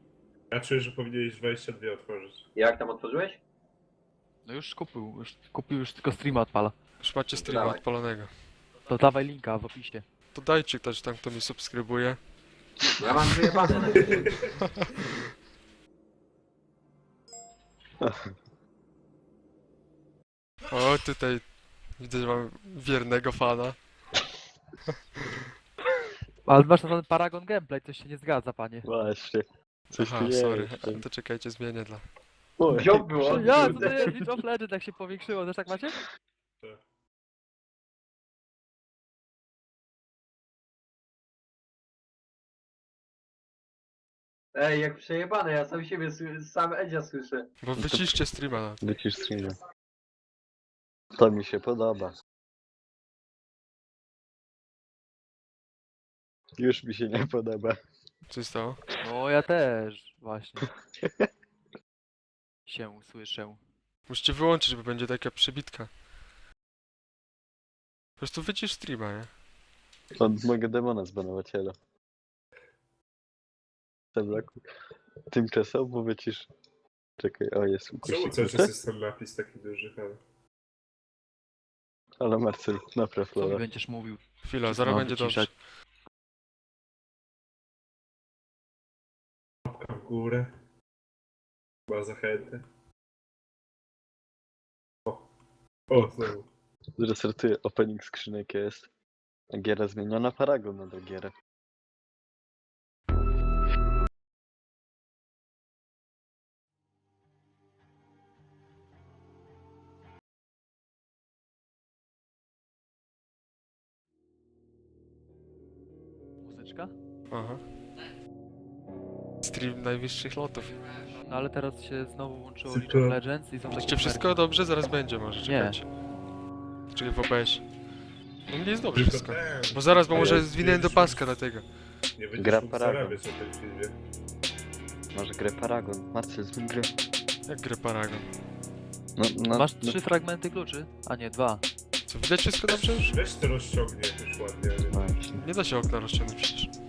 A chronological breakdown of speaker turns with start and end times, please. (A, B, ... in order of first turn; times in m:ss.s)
0:00.5-0:02.4 A
0:02.6-0:03.4 B
0:04.5-0:06.8 C
0:07.0-0:08.3 D
0:07.4-0:07.8 B
0:08.9-0:10.0 C
0:10.3-0:12.2 D
0:13.0-0:14.3 B
0:13.7-0:14.4 A
0:18.0-0:18.3 E
0:20.7-0:21.4 D
0:22.0-0:23.8 D
0:26.5-0:28.9 C
0:28.8-0:31.0 E
0:29.9-0:32.0 D
0:32.6-0:33.9 E
0:32.7-0:34.1 B
0:33.2-0:36.0 C
0:44.6-0:47.5 B
0:47.6-0:48.8 D
0:47.8-0:48.2 E
0:48.8-0:49.6 E
0:51.2-0:52.2 E
0:56.6-0:57.8 E
0:58.3-0:58.8 D
0:59.0-1:00.7 C
1:02.7-1:03.6 C
1:04.1-1:05.9 D
1:08.2-1:09.3 D
1:10.2-1:11.8 E
1:14.2-1:14.6 E
1:15.3-1:16.5 E
1:17.2-1:18.7 E
1:18.0-1:20.2 A
1:22.2-1:23.6 E
1:23.4-1:25.5 C
1:24.4-1:25.5 D
1:29.6-1:30.5 A
1:31.9-1:32.6 A
1:35.9-1:36.5 A
1:37.0-1:38.9 E
1:39.5-1:41.3 E
1:56.4-1:56.9 C
1:57.3-1:57.6 D
1:59.4-2:00.8 D
2:01.3-2:04.4 C
2:02.7-2:03.2 A
2:03.7-2:05.9 D
2:05.5-2:05.8 C
2:06.9-2:07.6 D
2:08.5-2:11.7 D
2:09.0-2:11.4 A
2:10.1-2:10.5 E
2:12.2-2:14.0 A
2:12.4-2:13.2 E
2:15.1-2:16.9 E
2:17.5-2:18.3 D
2:19.2-2:20.0 E
2:19.5-2:21.7 C
2:22.1-2:23.2 D
2:22.9-2:25.0 A
2:24.9-2:25.4 E
2:25.4-2:26.7 D